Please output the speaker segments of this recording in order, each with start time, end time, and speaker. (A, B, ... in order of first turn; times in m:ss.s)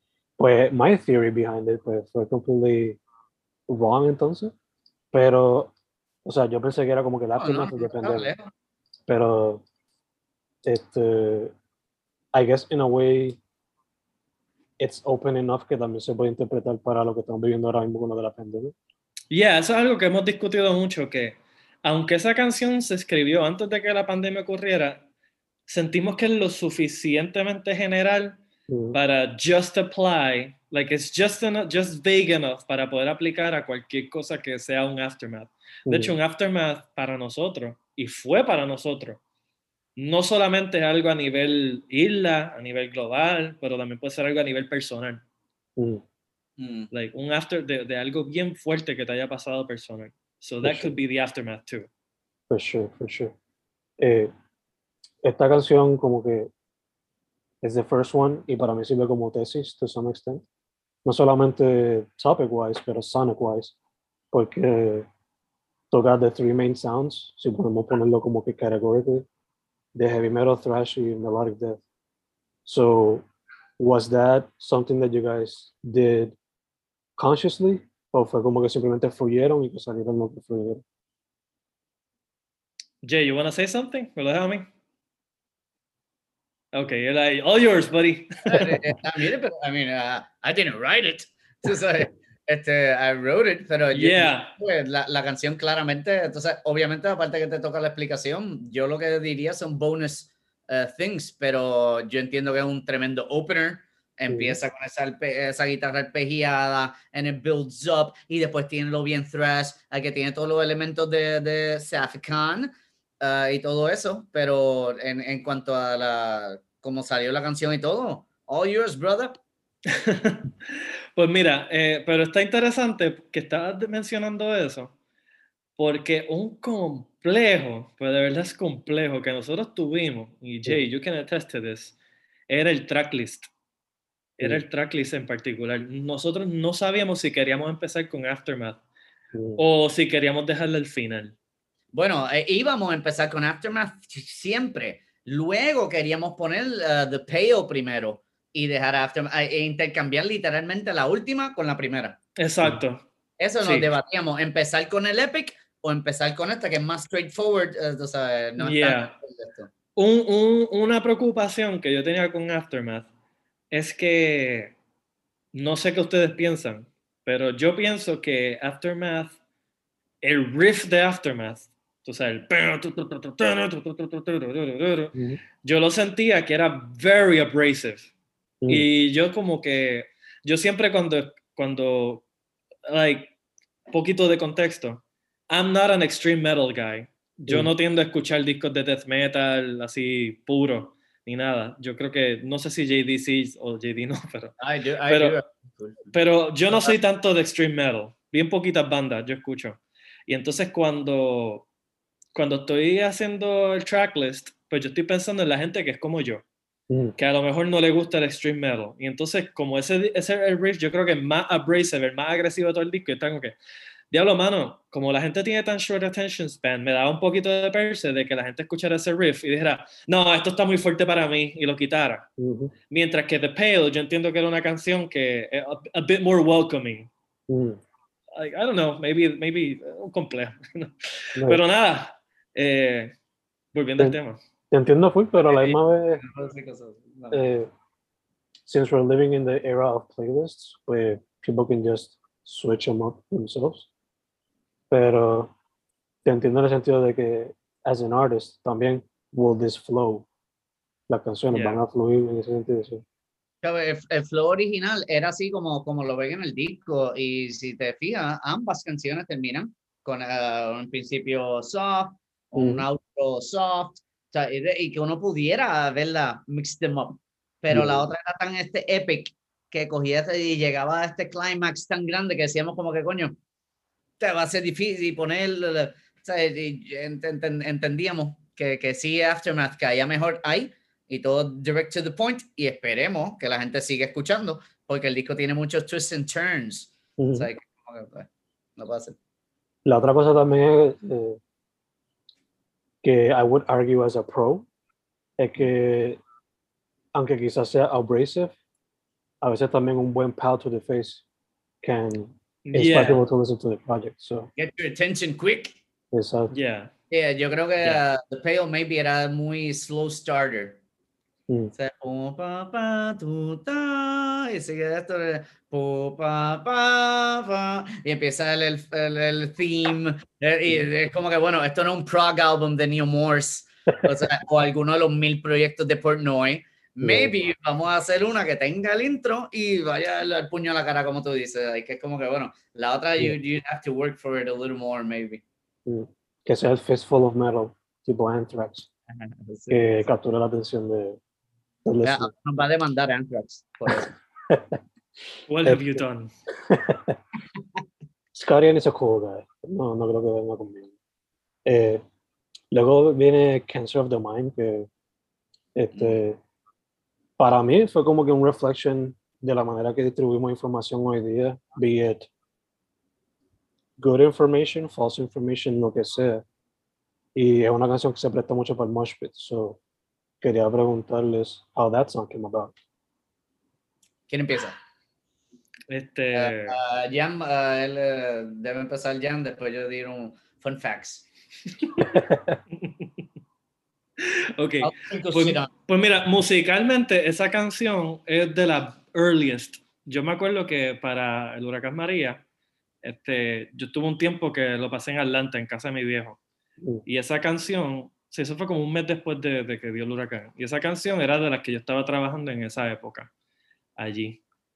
0:00.4-0:03.0 A
0:03.7-0:04.5 A
0:05.1-0:05.7 A
0:06.2-0:08.3 A
0:07.4-0:08.5 B
0:09.1-0:09.6 A
0:10.6-0:11.5 A
0:12.3-0:13.4 A
0:14.8-0:18.7 A
0:19.3-0:25.0 C
0:25.7-0:28.4 C
0:28.7-0:29.0 A
0:28.9-0:39.2 C
0:35.9-0:36.2 A
0:40.0-0:45.2 C
0:45.8-0:46.0 A
0:46.6-0:46.9 B
0:46.9-0:51.9 C
0:50.6-0:50.9 A
0:52.5-0:53.3 A
0:54.0-0:54.3 A
0:55.2-0:56.5 A
0:57.6-1:00.4 A
1:01.0-1:03.8 A
1:04.3-1:05.1 A
1:05.9-1:09.2 A
1:10.0-1:11.8 A
1:12.7-1:13.3 A
1:13.8-1:16.4 A
1:17.2-1:20.8 A
1:23.0-1:24.7 C
1:26.7-1:28.8 C
1:28.5-1:59.4 B
1:33.9-1:34.5 C
1:44.3-1:44.6 A
1:59.9-2:00.5 C
2:01.2-2:04.9 C
2:05.8-2:12.0 C
2:12.5-2:13.5 C
2:14.4-2:18.8 C
2:19.3-2:19.6 A
2:19.6-2:21.3 C
2:21.9-2:32.2 B
2:32.4-2:33.0 C
2:33.4-2:39.7 B
2:33.6-2:33.9 C
2:38.6-2:39.1 C
2:40.0-2:43.1 C
2:43.7-2:44.7 C
2:45.5-2:49.4 C
2:50.2-2:58.1 C
2:55.2-2:55.4 A
2:58.7-3:02.2 C
3:02.9-3:03.3 C
3:03.9-3:14.6 C
3:14.6-3:16.2 B
3:15.1-3:15.4 C
3:16.1-3:21.7 C
3:22.4-3:26.4 C
3:27.2-3:33.6 C
3:34.1-3:42.3 C
3:42.4-3:42.7 A
3:42.9-3:47.1 C
3:47.5-3:47.8 A
3:48.4-3:53.1 C
3:51.4-3:51.6 A
3:53.7-3:54.4 C
3:54.7-3:56.2 A
3:55.4-3:57.4 B
3:57.3-3:57.7 A
3:58.7-4:03.9 A
4:04.9-4:05.5 A
4:06.2-4:10.3 A
4:11.1-4:13.0 A
4:11.5-4:11.8 C
4:13.6-4:33.4 B
4:22.6-4:22.9 A
4:27.7-4:28.1 A
4:34.2-4:49.2 B
4:47.2-4:47.5 A
4:49.9-4:51.4 A
4:53.0-4:54.7 A
4:55.4-4:56.2 A
4:57.2-4:58.6 A
4:59.4-5:01.2 A
5:01.8-5:04.5 A
5:02.7-5:03.2 C
5:04.6-5:05.8 B
5:06.1-5:06.5 A
5:06.5-5:06.9 C
5:07.1-5:10.8 B
5:11.8-5:35.4 B
5:27.0-5:27.3 A
5:35.9-5:38.9 A
5:39.1-5:40.1 B
5:39.7-5:41.2 A
5:41.8-5:42.3 A
5:42.0-5:44.1 B
5:43.9-5:44.8 A
5:45.5-5:46.3 C
5:46.7-5:47.2 A
5:48.4-5:50.9 A
5:51.7-5:52.0 A
5:52.7-5:54.9 A
5:55.8-5:56.4 A
5:56.0-5:56.2 B
5:57.4-6:02.3 A
6:04.0-6:06.4 A
6:07.4-6:09.8 A
6:10.4-6:12.7 A
6:14.3-6:14.8 B
6:15.9-6:16.8 C
6:16.4-6:21.2 B
6:22.0-6:22.6 A
6:22.8-6:23.1 C
6:24.2-6:32.4 C
6:24.8-6:25.7 B
6:33.0-6:36.4 C
6:37.1-6:43.3 C
6:44.0-6:44.4 C